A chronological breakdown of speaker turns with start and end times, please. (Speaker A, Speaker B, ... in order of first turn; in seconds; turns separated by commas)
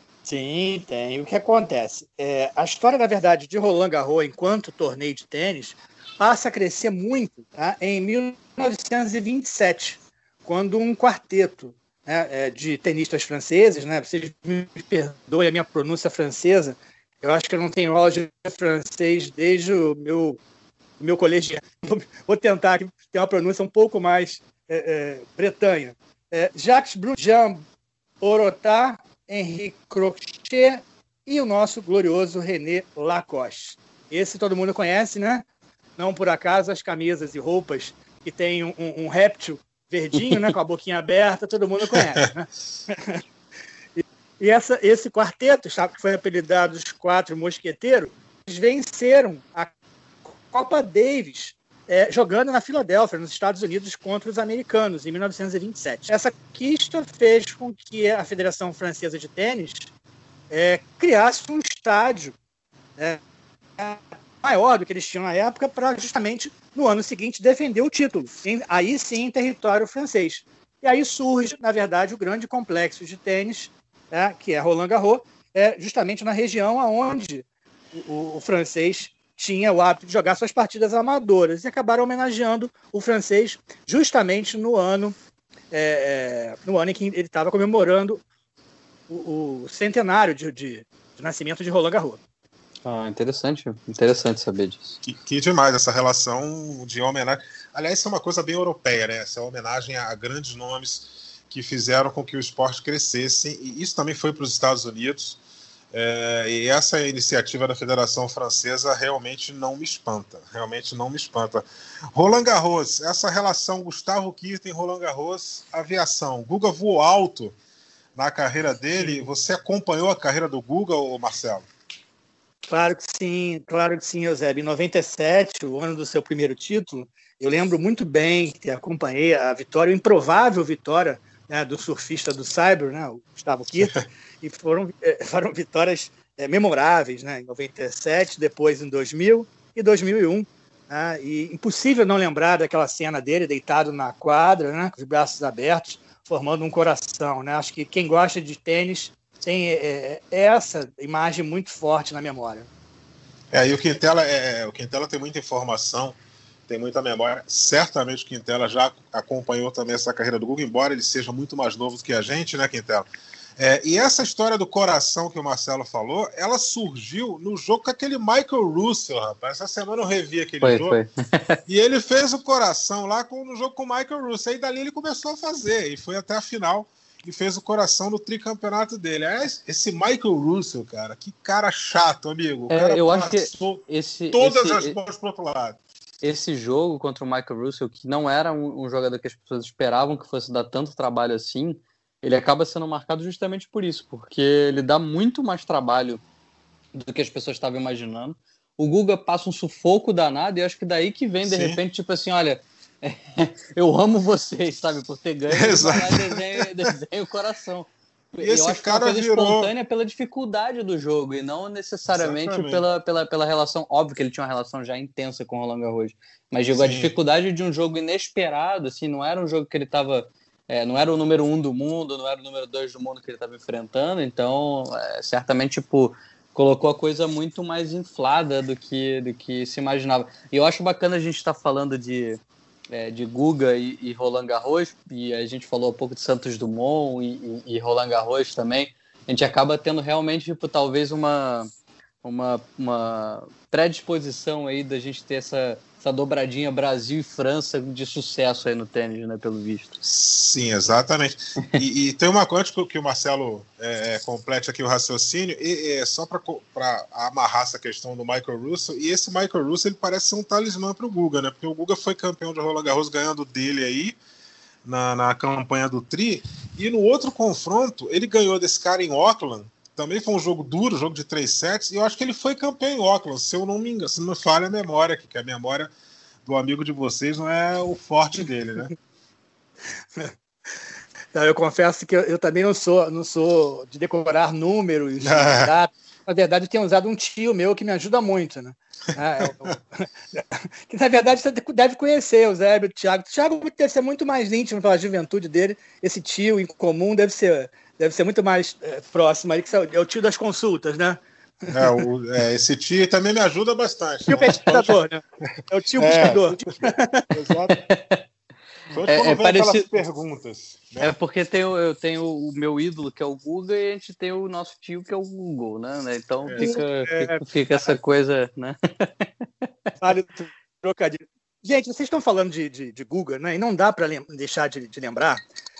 Speaker A: 0.2-20.4, Speaker A: 21.0-27.6, Speaker A: 28.2-35.5, Speaker A: 36.0-43.2, Speaker A: 43.9-49.7, Speaker A: 50.2-59.9, Speaker A: 60.5-62.4, Speaker A: 63.8-85.2, Speaker A: 85.7-88.2, Speaker A: 89.1-92.2, Speaker B: 92.8-95.0, Speaker C: 95.0-105.4, Speaker C: 105.9-117.5, Speaker C: 118.2-121.7, Speaker A: 122.7-152.7, Speaker C: 153.5-156.2, Speaker C: 156.7-171.0, Speaker B: 170.6-171.6, Speaker C: 171.7-185.8, Speaker B: 182.7-185.0, Speaker B: 186.2-196.2, Speaker B: 196.9-232.4, Speaker C: 201.4-201.8, Speaker C: 205.5-206.6, Speaker C: 208.4-209.7, Speaker C: 212.1-212.8, Speaker C: 216.7-217.1, Speaker B: 232.9-241.7, Speaker B: 242.2-250.0, Speaker C: 250.0-264.2, Speaker C: 264.8-275.9, Speaker C: 276.4-278.9, Speaker A: 281.3-302.0, Speaker C: 285.2-285.7, Speaker C: 301.7-305.0, Speaker A: 304.3-307.2, Speaker C: 306.0-307.8, Speaker B: 307.7-308.2, Speaker C: 308.9-311.1, Speaker B: 309.1-309.9, Speaker B: 311.0-319.7, Speaker C: 316.4-316.7, Speaker A: 316.6-317.9, Speaker A: 320.0-325.4